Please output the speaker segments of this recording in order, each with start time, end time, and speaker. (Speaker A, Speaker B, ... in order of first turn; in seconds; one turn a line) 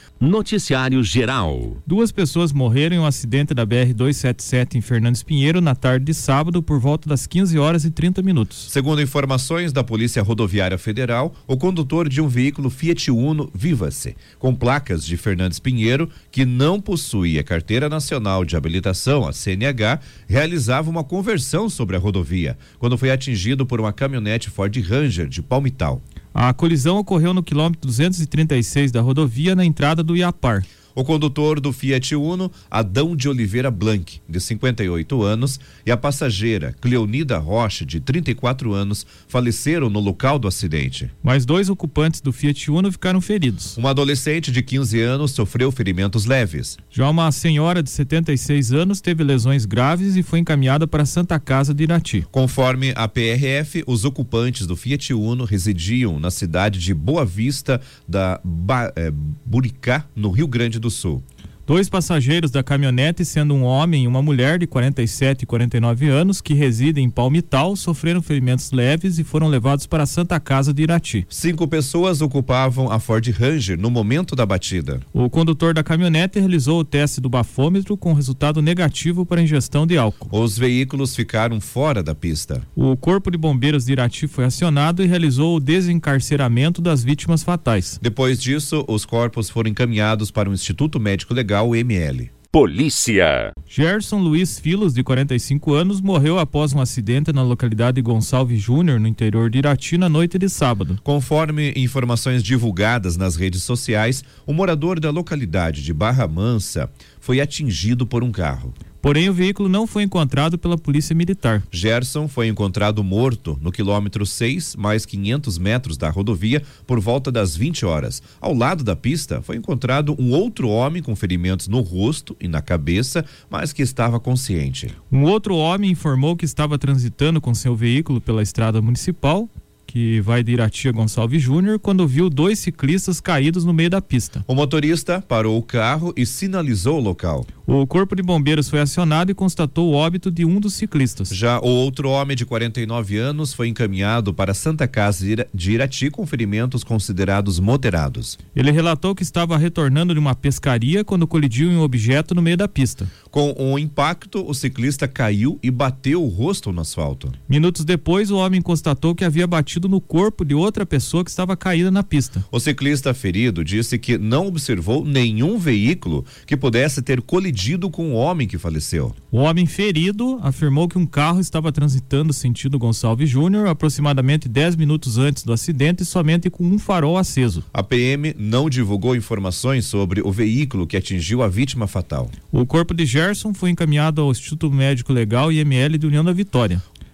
Speaker A: 0.2-1.8
Speaker B: 1.9-8.7
Speaker C: 8.7-26.0
Speaker B: 26.3-30.6
Speaker C: 30.9-41.1
Speaker B: 41.2-43.8
Speaker C: 43.8-46.8
Speaker B: 46.9-52.3
Speaker C: 52.3-61.2
Speaker B: 61.7-71.2
Speaker C: 71.3-75.0
Speaker B: 75.1-80.3
Speaker C: 80.3-82.6
Speaker B: 82.8-88.0
Speaker C: 88.0-92.3
Speaker A: 92.5-93.5
Speaker B: 93.7-101.0
Speaker C: 101.0-108.7
Speaker B: 109.0-111.6
Speaker C: 111.7-124.9
Speaker B: 125.1-134.4
Speaker C: 134.5-137.5
Speaker B: 137.7-141.3
Speaker C: 141.3-148.4
Speaker B: 148.5-153.1
Speaker C: 153.3-157.3
Speaker B: 157.5-162.4
Speaker C: 162.5-169.1
Speaker B: 169.3-177.6
Speaker C: 177.7-182.3
Speaker B: 182.5-186.8